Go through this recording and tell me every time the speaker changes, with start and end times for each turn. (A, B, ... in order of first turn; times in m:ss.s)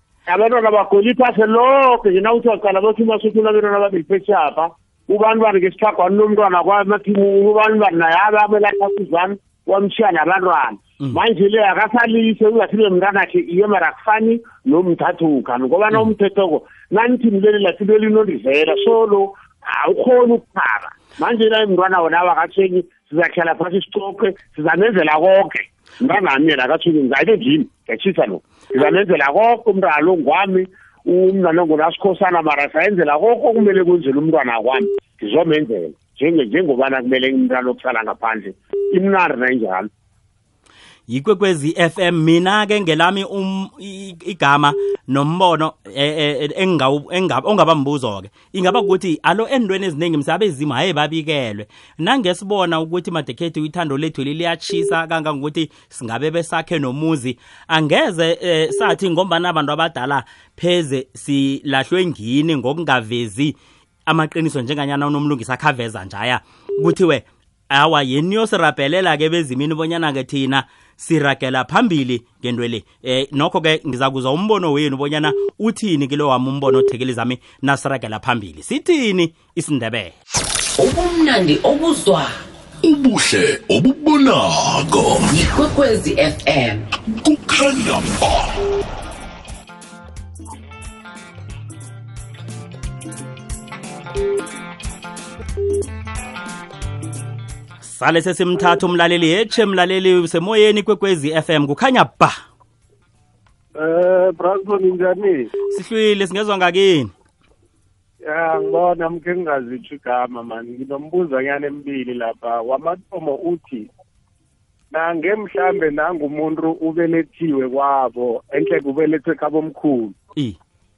0:00.3-0:39.9 A
0:41.1-1:03.5 B
1:04.0-1:20.1 B
1:20.8-1:22.3 C
1:22.8-1:25.3 D
1:25.3-1:26.8 C
1:27.1-1:28.5 D
1:37.8-1:42.4 B
1:43.8-1:45.5 E
1:45.7-1:47.1 B
1:48.2-1:53.9 E
1:54.9-2:00.2 E